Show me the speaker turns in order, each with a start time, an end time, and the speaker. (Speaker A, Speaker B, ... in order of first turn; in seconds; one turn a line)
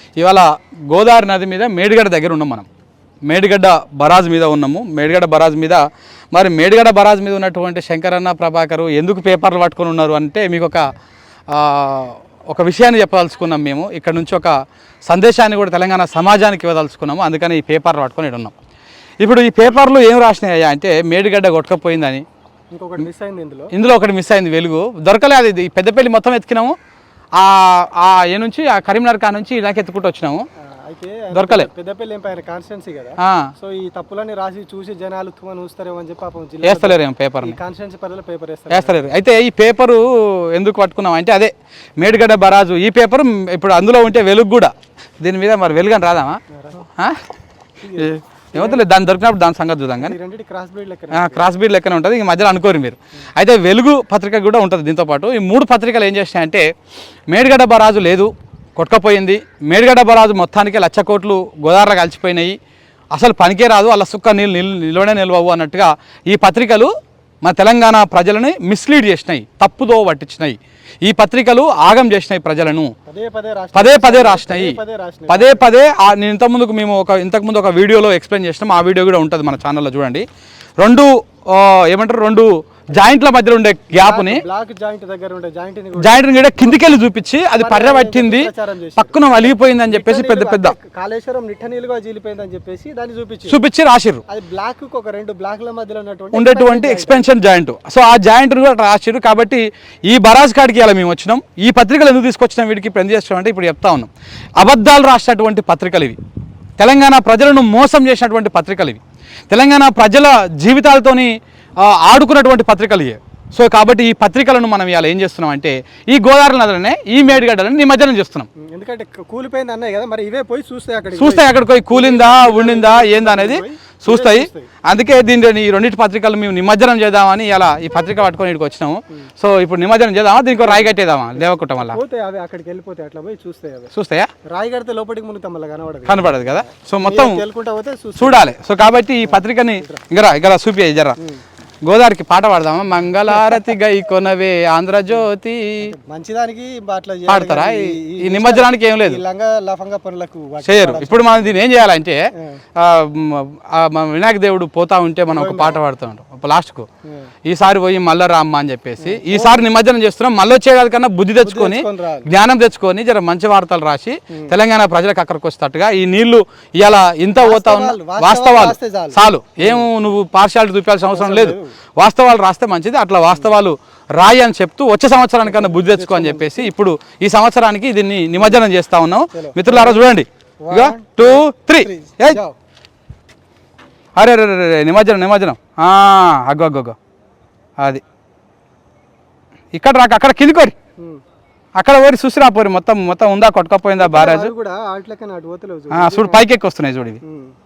Speaker A: 0.2-2.7
Speaker A: 3.3-10.9
Speaker A: 11.5-14.5
Speaker A: 15.1-18.5
Speaker A: 19.2-22.2
Speaker B: 22.7-23.7
Speaker A: 23.7-26.8
Speaker A: 27.4-30.4
Speaker B: 30.8-39.2
Speaker A: 31.3-31.7
Speaker A: 33.2-33.5
Speaker A: 36.6-37.6
Speaker A: 38.7-47.2
Speaker B: 46.6-46.8
Speaker B: 47.8-48.9
Speaker A: 47.9-50.1
Speaker B: 50.0-51.5
Speaker A: 51.1-56.6
Speaker A: 57.3-62.6
Speaker A: 63.1-66.9
Speaker A: 67.4-72.9
Speaker B: 73.1-75.7
Speaker A: 73.8-74.8
Speaker A: 75.3-80.2
Speaker A: 80.8-84.4
Speaker B: 83.9-86.8
Speaker A: 86.0-90.8
Speaker B: 87.6-93.6
Speaker A: 93.5-94.2
Speaker B: 94.3-97.3
Speaker A: 96.3-106.2
Speaker A: 106.8-118.5
Speaker B: 118.6-124.7
Speaker A: 121.2-132.0
Speaker B: 130.6-133.9
Speaker A: 133.9-134.3
Speaker B: 134.5-138.5
Speaker A: 136.1-137.4
Speaker A: 138.2-141.2
Speaker B: 139.2-140.0
Speaker A: 141.9-145.9
Speaker B: 143.3-143.6
Speaker B: 145.8-151.6
Speaker A: 147.3-149.2
Speaker A: 150.7-156.9
Speaker B: 152.3-152.6
Speaker B: 155.3-155.8
Speaker B: 157.0-157.3
Speaker A: 157.5-182.4
Speaker B: 159.0-159.7
Speaker B: 161.4-162.3
Speaker B: 167.4-169.9
Speaker B: 171.1-171.7
Speaker B: 175.4-176.7
Speaker B: 178.4-178.6
Speaker B: 179.3-180.1
Speaker B: 180.6-182.6
Speaker A: 184.2-187.0
Speaker A: 189.7-190.8
Speaker A: 191.8-194.5
Speaker B: 194.0-196.5
Speaker A: 195.9-197.2
Speaker B: 197.2-197.5